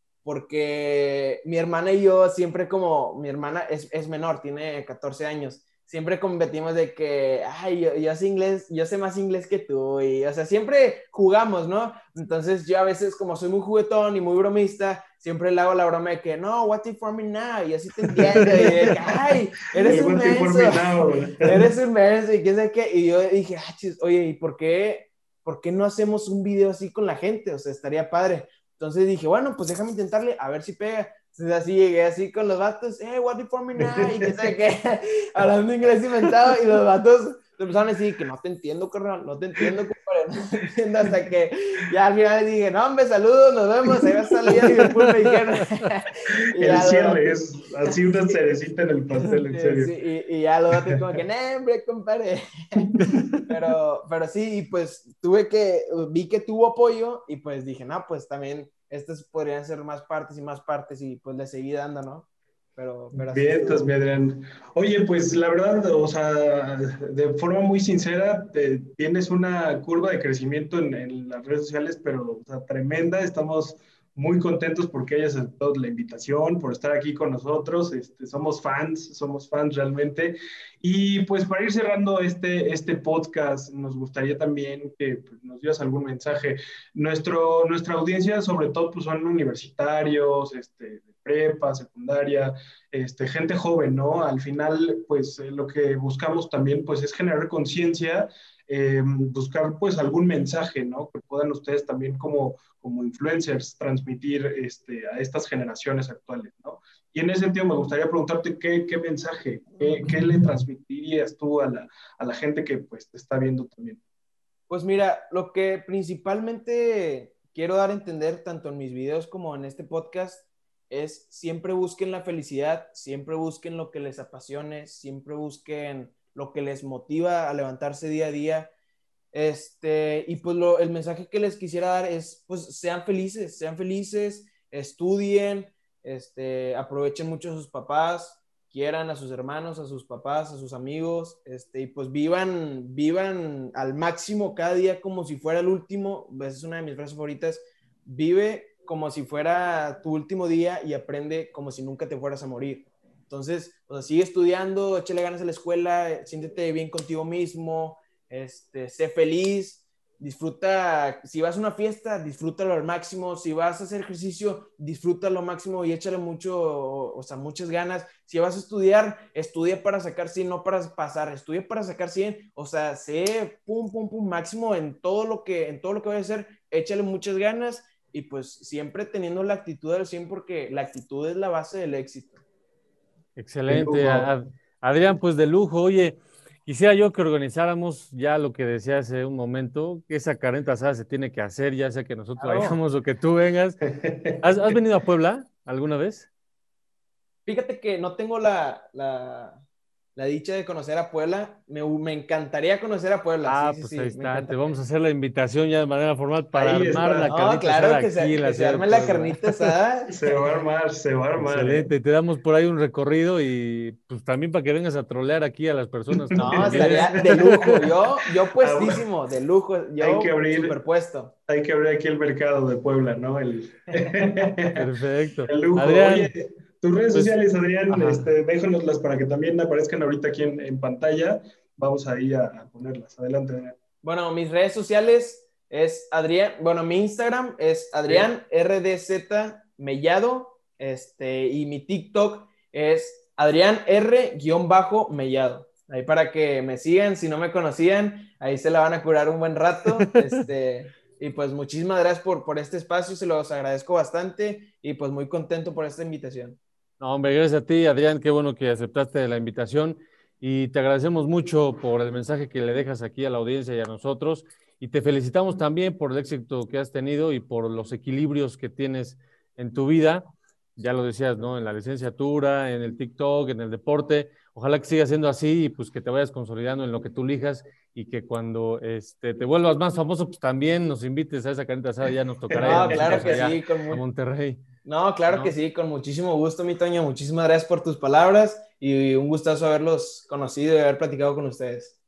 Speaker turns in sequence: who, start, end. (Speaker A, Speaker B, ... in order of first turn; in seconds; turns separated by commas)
Speaker A: 0.2-47.3, Speaker B: 18.1-18.9, Speaker B: 19.8-21.7, Speaker C: 44.8-45.1, Speaker B: 46.6-49.9, Speaker A: 49.5-52.9, Speaker B: 52.8-53.3, Speaker A: 53.5-63.9, Speaker B: 63.1-114.0, Speaker A: 114.7-128.7, Speaker A: 129.3-182.4, Speaker C: 183.4-193.8, Speaker B: 183.7-184.3, Speaker A: 192.4-192.8, Speaker B: 194.0-194.8, Speaker C: 194.4-196.3, Speaker A: 197.5-199.6, Speaker A: 200.2-204.7, Speaker C: 203.4-209.7, Speaker B: 206.5-207.3, Speaker A: 207.3-210.5, Speaker B: 210.1-211.9, Speaker C: 211.4-217.8, Speaker B: 216.1-217.9, Speaker A: 216.4-221.3, Speaker B: 218.6-219.0, Speaker B: 220.0-220.8, Speaker B: 221.5-224.9, Speaker C: 224.8-226.3, Speaker B: 225.5-233.8, Speaker C: 227.9-228.3, Speaker A: 234.0-256.6, Speaker C: 257.0-284.6, Speaker B: 282.5-283.5, Speaker A: 282.6-284.0, Speaker A: 284.8-292.0, Speaker C: 285.3-285.5